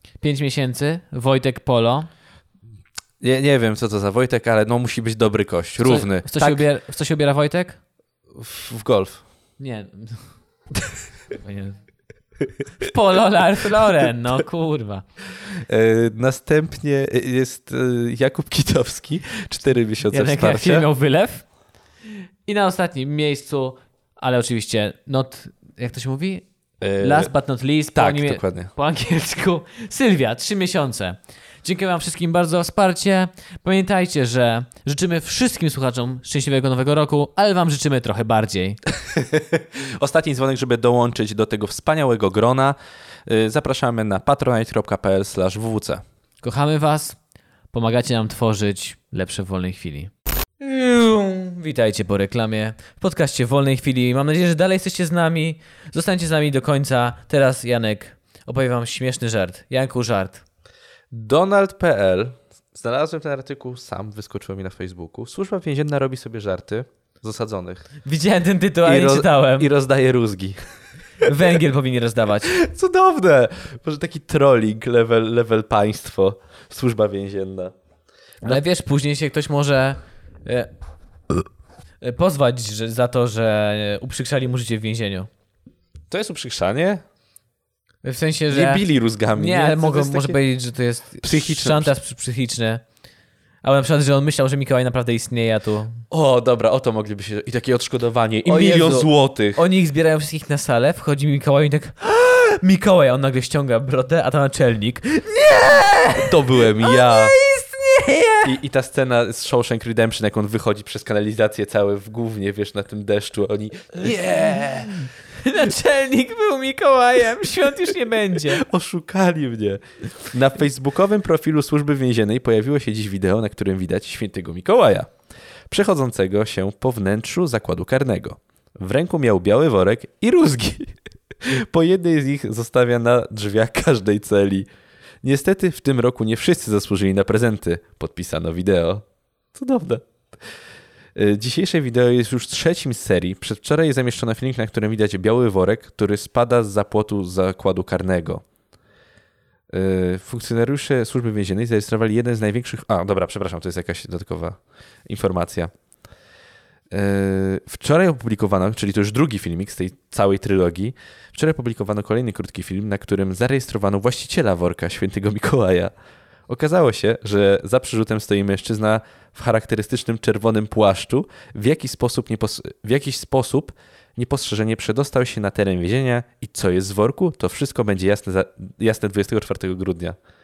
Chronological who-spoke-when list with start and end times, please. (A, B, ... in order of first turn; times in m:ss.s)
0:00.2-0:02.1 A
0:03.2-0:06.6 B
0:05.8-0:07.8 A
0:08.3-0:09.2 B
0:09.6-0:10.3 A
0:11.4-0:11.8 A
0:12.8-0:15.0 A
0:15.5-0:20.9 B
0:20.1-0:21.4 A
0:22.4-0:26.5 A
0:26.8-0:27.3 B
0:27.0-0:38.8 A
0:27.9-0:28.7 B
0:39.0-0:46.0 B
0:46.4-0:47.2 A
0:47.7-1:00.4 A
1:01.1-1:07.9 B
1:08.0-1:09.7 A
1:08.8-1:10.6 B
1:11.2-1:12.5 A
1:12.5-1:17.7 B
1:18.4-1:20.7 A
1:22.0-1:25.3 A
1:26.1-1:27.0 B
1:28.0-1:32.8 A
1:28.5-1:30.4 B
1:31.2-1:31.9 B
1:33.6-1:36.0 A
1:36.1-1:39.6 B
1:38.4-1:48.5 A
1:46.2-1:47.3 B
1:48.4-1:55.0 B
1:54.0-1:58.6 A
1:58.4-2:05.1 B
2:05.7-2:14.7 B
2:15.2-2:20.1 B
2:21.1-2:28.4 B
2:29.7-2:35.7 B
2:36.9-2:45.9 B
2:46.5-3:00.2 B